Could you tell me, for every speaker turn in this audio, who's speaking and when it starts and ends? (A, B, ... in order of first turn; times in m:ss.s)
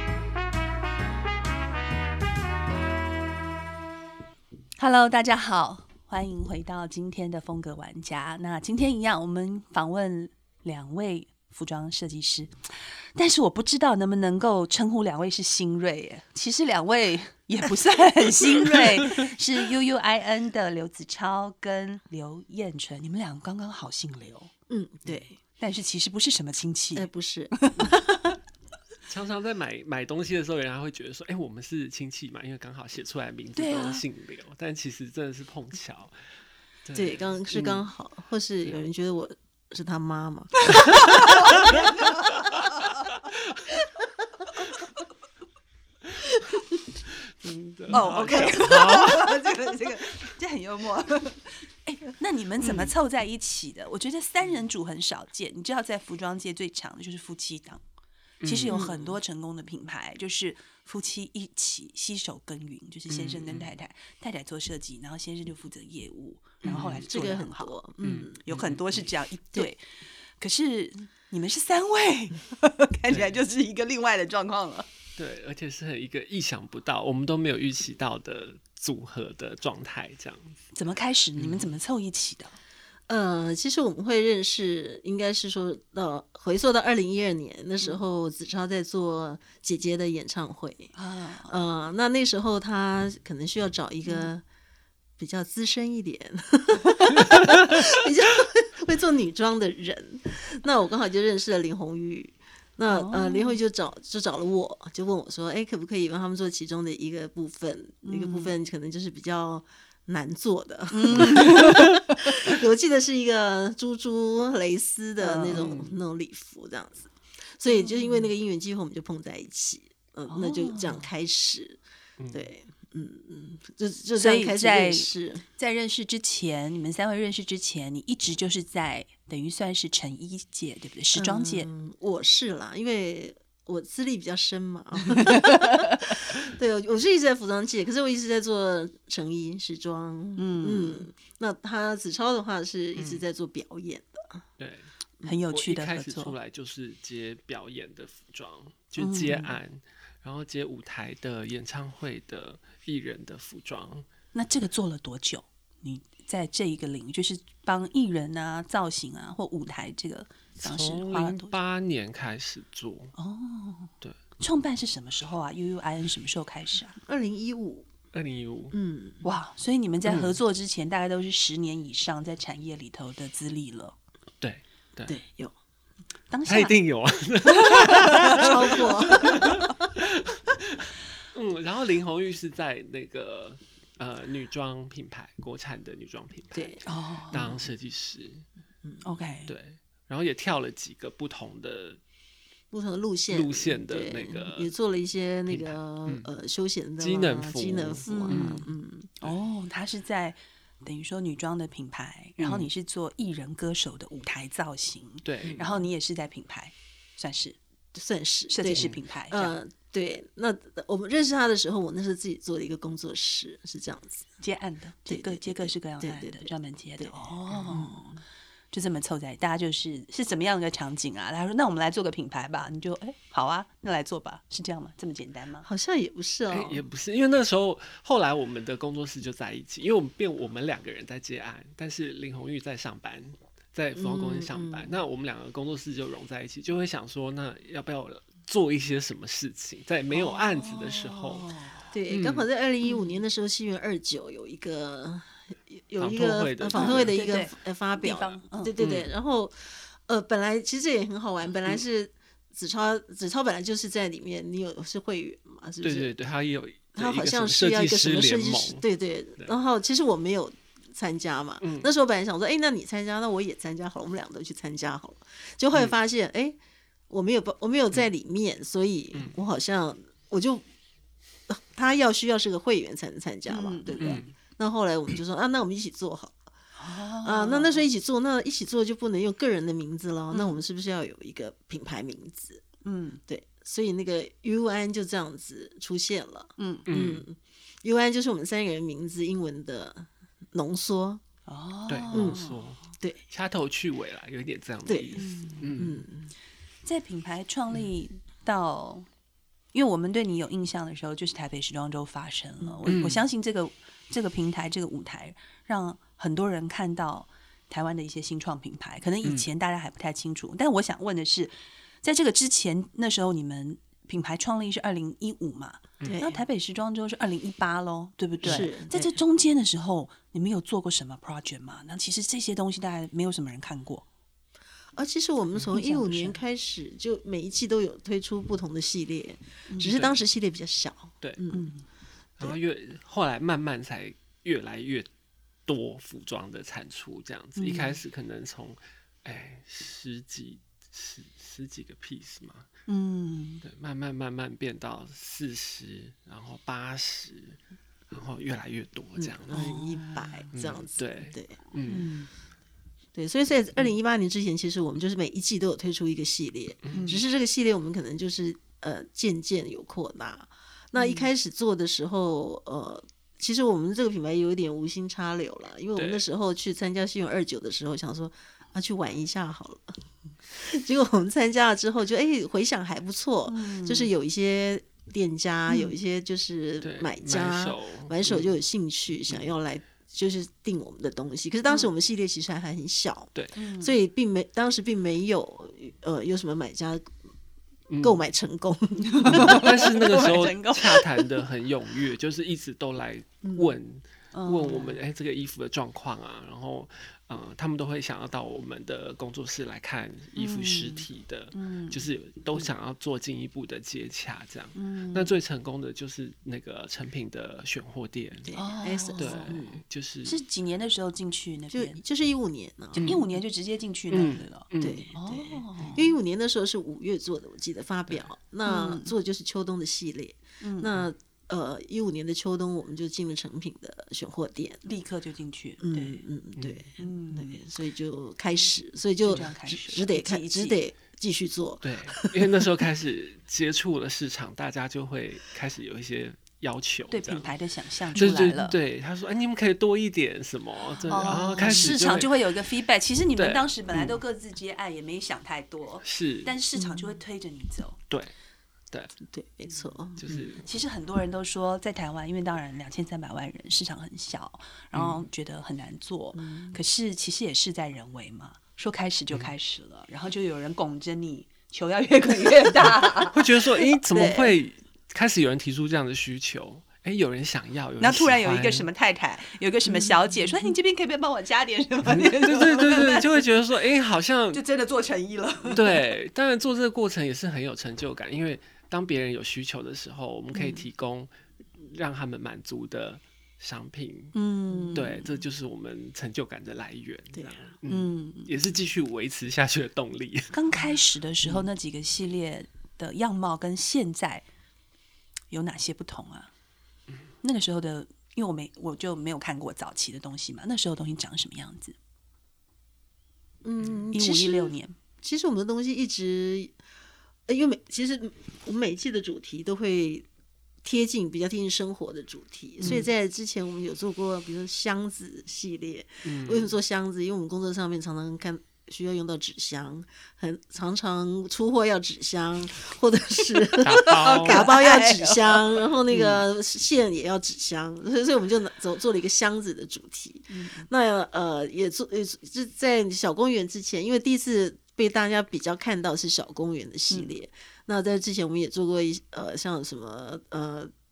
0:04.8-0:24.5 A
0:24.7-0:25.4 B
0:25.6-0:28.3 A
0:26.9-0:27.9 B
0:29.1-0:36.2 C
0:33.5-0:34.0 A
0:36.8-0:37.8 C
0:36.9-0:40.9 B
0:40.7-0:42.5 A
0:47.4-0:49.5 C
0:47.9-0:48.7 B
0:47.9-0:57.8 A
0:58.4-0:58.8 C
0:58.4-1:07.8 A
0:58.7-0:59.2 B
1:03.1-1:03.7 C
1:06.6-1:07.1 C
1:07.0-1:08.4 B
1:08.0-1:08.8 C
1:08.4-1:09.8 A
1:10.4-1:14.9 A
1:13.1-1:13.4 C
1:15.2-1:20.6 C
1:20.7-1:22.6 A
1:21.4-1:21.7 C
1:23.1-1:30.9 B
1:30.9-1:31.5 A
1:31.4-1:34.4 B
1:34.0-1:34.3 A
1:35.2-2:01.8 B
1:42.9-1:43.6 A
1:48.0-1:48.5 A
1:50.9-1:52.3 A
1:55.2-1:55.7 A
1:55.5-1:56.0 C
1:57.7-1:58.3 A
2:00.3-2:01.1 A
2:02.3-2:05.4 B
2:04.2-2:11.7 A
2:11.1-2:15.8 B
2:16.4-2:24.4 B
2:20.4-2:21.1 A
2:23.0-2:23.2 C
2:24.6-2:24.9 C
2:25.2-2:26.3 A
2:25.5-2:34.0 C
2:29.0-2:29.5 B
2:29.0-2:29.3 A
2:34.3-2:41.6 A
2:40.6-2:43.1 C
2:43.2-2:47.0 A
2:47.0-2:47.9 B
2:48.1-2:48.7 C
2:48.7-2:49.2 B
2:49.2-2:54.0 A
2:50.0-2:50.4 C
2:54.4-2:55.2 C
2:55.1-2:55.5 B
2:56.3-2:56.7 A
2:56.4-3:00.6 C
2:58.0-2:58.8 A
2:58.2-2:59.4 B
3:01.3-3:08.4 C
3:06.5-3:06.8 B
3:06.8-3:07.5 A
3:09.0-3:09.5 A
3:09.5-3:12.0 C
3:12.7-3:19.1 B
3:13.3-3:14.7 C
3:15.5-3:16.3 C
3:17.0-3:18.6 C
3:18.0-3:18.7 A
3:19.2-3:27.6 A
3:22.4-3:22.7 C
3:25.2-3:25.7 C
3:25.4-3:25.7 B
3:27.9-3:34.3 B
3:28.5-3:29.5 A
3:34.4-3:38.0 A
3:35.1-3:38.2 B
3:38.7-3:45.6 A
3:45.6-3:46.8 B
3:46.5-4:01.5 C
3:54.0-3:55.0 B
4:00.1-4:01.9 A
4:01.9-4:16.1 B
4:02.1-4:02.4 C
4:02.8-4:03.2 A
4:06.0-4:07.2 C
4:06.7-4:08.7 A
4:08.8-4:09.1 C
4:15.8-4:18.8 C
4:17.0-4:26.6 B
4:21.6-4:21.9 C
4:27.1-4:30.6 B
4:29.1-4:29.4 C
4:31.5-4:36.4 B
4:33.5-4:34.3 A
4:33.9-4:34.3 C
4:36.8-4:37.8 A
4:37.2-4:42.6 B
4:40.3-4:40.6 A
4:42.8-4:43.2 A
4:43.3-4:51.2 B
4:46.6-4:46.9 A
4:46.9-4:47.2 C
4:51.5-4:52.6 A
4:51.9-4:56.0 C
4:52.1-4:52.4 B
4:53.0-4:53.2 B
4:54.8-4:56.3 B
4:55.2-4:55.7 A
4:56.8-4:59.1 A
4:59.7-5:24.0 A
5:02.6-5:03.0 B
5:02.8-5:03.2 C
5:16.0-5:16.4 B
5:18.4-5:19.2 B
5:24.9-5:31.7 B
5:25.7-5:26.4 A
5:29.7-5:30.1 A
5:31.5-5:31.8 A
5:32.4-5:35.1 C
5:35.7-5:42.7 C
5:37.6-5:38.0 A
5:42.9-5:43.6 A
5:43.6-5:47.6 C
5:48.1-5:49.6 C
5:49.4-5:51.6 B
5:49.5-5:50.5 A
5:50.5-5:52.0 C
5:51.9-5:52.3 A
5:53.1-6:27.1 B
5:56.9-5:57.2 A
6:01.0-6:01.3 A
6:05.9-6:06.2 C
6:13.4-6:14.1 A
6:15.7-6:16.0 A
6:16.8-6:18.6 C
6:23.5-6:23.9 A
6:27.9-6:28.2 C
6:28.0-6:29.9 B
6:29.1-6:31.3 A
6:29.2-6:48.5 C
6:33.4-6:33.7 B
6:34.3-6:35.0 A
6:40.4-6:42.0 A
6:44.7-6:45.3 A
6:48.4-6:49.8 B
6:48.5-6:49.6 A
6:49.2-6:50.4 C
6:50.2-6:52.0 A
6:51.7-6:53.2 B
6:52.9-6:56.2 A
6:53.0-6:53.2 C
6:54.1-6:55.1 C
6:54.8-7:04.8 B
6:58.6-6:59.1 A
7:00.6-7:01.0 A
7:04.8-7:06.2 A
7:05.8-7:12.3 B
7:06.6-7:06.8 C
7:07.0-7:07.5 A
7:09.2-7:10.8 A
7:11.8-7:17.5 C
7:17.1-7:18.8 A
7:18.1-7:22.5 C
7:21.1-7:28.0 A
7:21.1-7:22.0 B
7:23.3-7:24.2 C
7:26.0-7:26.5 C
7:26.7-7:27.2 B
7:29.3-7:30.5 B
7:30.2-7:30.6 C
7:30.6-7:43.6 A
7:34.9-7:35.2 C
7:36.3-7:36.8 B
7:43.3-7:48.9 C
7:44.1-7:44.6 B
7:48.0-7:53.4 A
7:49.9-7:50.2 B
7:52.0-7:54.6 C
7:54.5-7:56.0 A
7:55.6-8:04.3 C
8:00.5-8:00.8 A
8:04.3-8:05.2 A
8:04.7-8:05.1 B
8:04.9-8:10.5 C
8:07.3-8:07.8 B
8:07.9-8:08.5 A
8:10.5-8:14.4 A
8:15.5-8:16.5 A
8:17.4-8:22.0 A
8:23.6-8:26.8 B
8:24.1-8:25.0 A
8:27.5-8:30.2 B
8:30.8-9:00.9 B
8:36.2-8:36.7 C
8:43.8-8:45.8 A
8:43.8-8:44.7 C
8:46.1-8:46.4 C
8:50.5-8:50.9 A
8:57.1-8:57.4 A